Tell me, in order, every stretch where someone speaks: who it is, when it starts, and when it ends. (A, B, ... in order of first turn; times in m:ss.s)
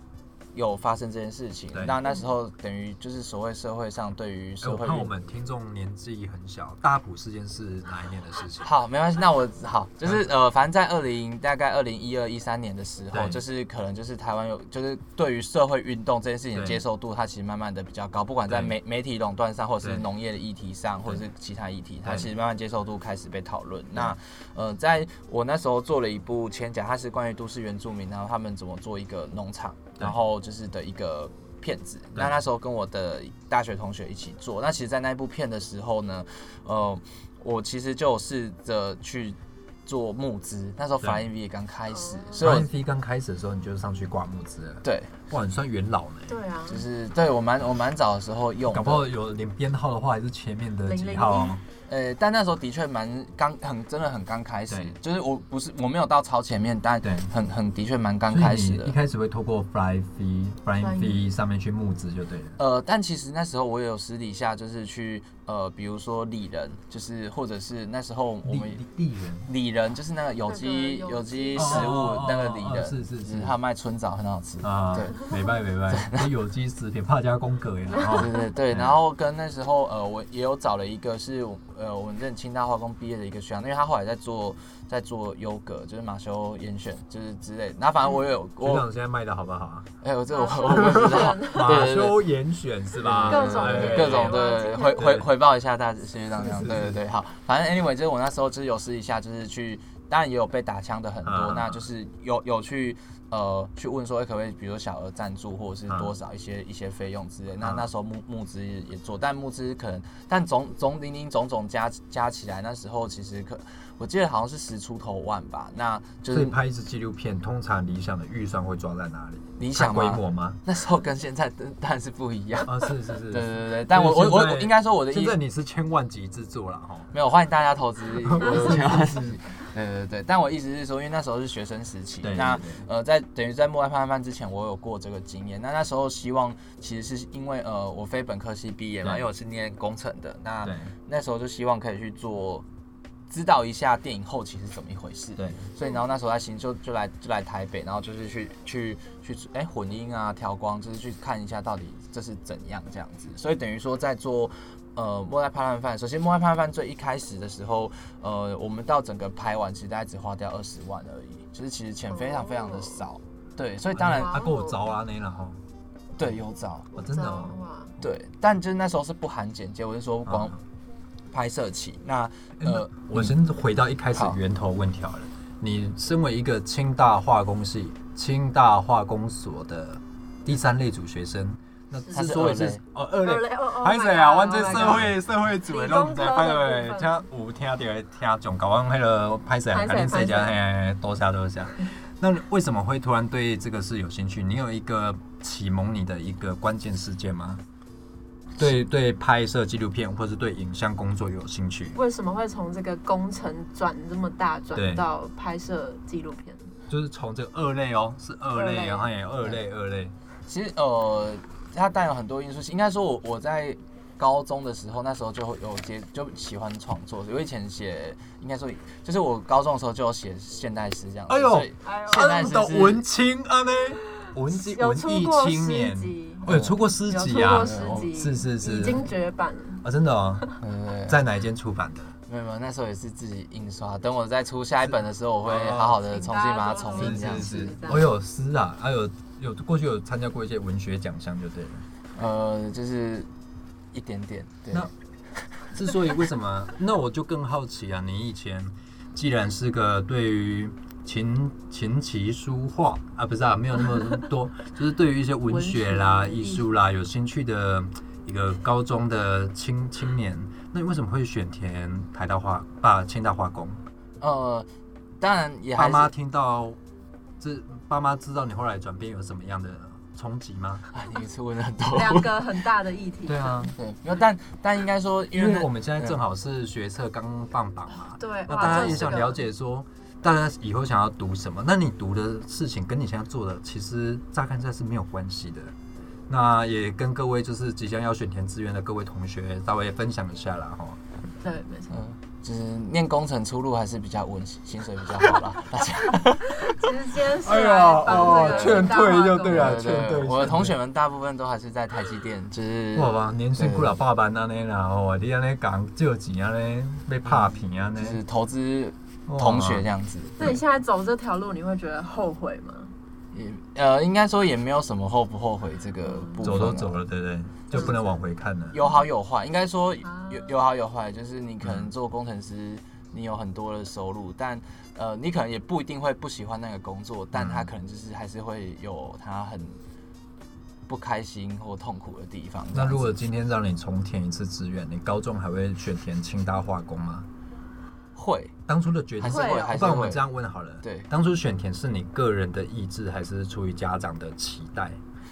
0:00.5-0:05.1 A
0:01.7-0:02.0 B
0:04.6-0:08.7 B
0:08.6-0:42.7 A
0:13.1-0:13.4 B
0:16.5-0:16.8 B
0:18.5-0:18.7 B
0:19.8-0:20.0 B
0:41.0-0:41.2 B
0:41.9-0:42.6 C
0:42.4-0:46.4 B
0:44.8-0:45.2 A
0:46.3-0:46.8 C
0:46.7-0:49.1 A
0:48.7-0:51.6 B
0:50.8-0:51.6 C
0:51.9-0:58.9 A
0:54.7-0:55.0 B
0:57.0-0:57.3 B
0:58.3-1:02.6 B
1:00.8-1:01.2 C
1:02.6-1:08.8 A
1:08.4-1:09.5 B
1:09.4-1:15.3 A
1:10.4-1:11.9 C
1:11.6-1:13.5 B
1:14.6-1:18.9 B
1:15.9-1:16.3 A
1:18.1-1:28.8 A
1:28.6-1:29.9 B
1:30.0-1:32.2 A
1:30.3-1:31.8 C
1:30.7-1:35.3 B
1:33.0-1:56.6 A
1:33.2-1:35.1 C
1:36.3-1:37.0 B
1:41.2-1:41.8 B
1:45.9-1:46.1 B
1:47.6-1:47.9 B
1:56.3-2:00.6 B
1:59.6-2:02.7 A
2:02.6-2:07.1 B
2:03.3-2:05.4 A
2:07.1-2:22.6 A
2:08.2-2:09.3 B
2:12.2-2:12.8 B
2:20.4-2:20.9 B
2:23.3-2:44.4 A
2:25.4-2:25.6 B
2:42.1-2:43.0 C
2:43.9-2:45.6 B
2:44.0-2:45.0 C
2:46.2-2:46.9 A
2:46.9-2:47.9 C
2:47.0-2:47.6 B
2:48.0-2:50.5 A
2:50.2-2:50.6 B
2:51.3-2:53.4 A
2:52.6-3:17.6 B
2:54.1-2:54.4 A
3:02.0-3:02.3 C
3:02.1-3:02.8 A
3:03.2-3:07.2 C
3:09.7-3:10.6 C
3:18.6-3:22.0 B
3:21.9-3:26.6 C
3:24.7-3:25.0 B
3:26.9-3:30.1 B
3:28.5-3:29.1 C
3:30.4-3:43.0 A
3:41.3-3:49.1 B
3:41.8-3:42.4 C
3:44.4-3:46.5 C
3:46.5-3:46.8 A
3:47.0-3:49.8 C
3:47.3-3:48.1 A
3:49.8-3:50.4 B
3:50.6-3:51.2 A
3:51.1-3:52.1 B
3:52.3-3:57.6 A
3:55.4-3:56.0 B
3:56.0-3:58.1 C
3:56.9-4:01.8 B
4:02.1-4:03.3 A
4:03.9-4:04.9 A
4:05.7-4:23.8 B
4:15.5-4:16.6 C
4:24.2-4:24.7 A
4:25.2-4:26.1 A
4:25.8-4:26.8 B
4:27.4-4:30.9 B
4:30.9-4:32.4 A
4:31.9-4:33.7 C
4:33.2-4:33.7 B
4:33.7-4:36.2 A
4:35.3-4:45.7 B
4:37.9-4:39.4 C
4:38.5-4:39.0 A
4:46.3-4:51.0 B
4:51.4-4:52.0 C
4:51.9-4:56.8 A
4:56.6-4:59.8 C
4:57.3-5:00.8 B
4:58.1-4:58.9 A
4:59.5-5:04.0 A
5:02.9-5:08.2 B
5:07.2-5:10.6 A
5:09.3-5:09.8 B
5:10.4-5:12.9 C
5:13.3-5:17.0 A
5:16.0-5:16.4 C
5:16.4-5:18.8 B
5:17.7-5:18.0 C
5:18.7-5:29.8 A
5:20.0-5:20.6 C
5:21.6-5:21.9 B
5:27.3-5:27.7 B
5:30.9-5:33.3 A
5:32.7-5:37.3 B
5:38.1-5:38.5 A
5:38.7-5:45.0 B
5:39.2-5:40.2 A
5:39.2-5:39.7 C
5:40.8-5:41.1 A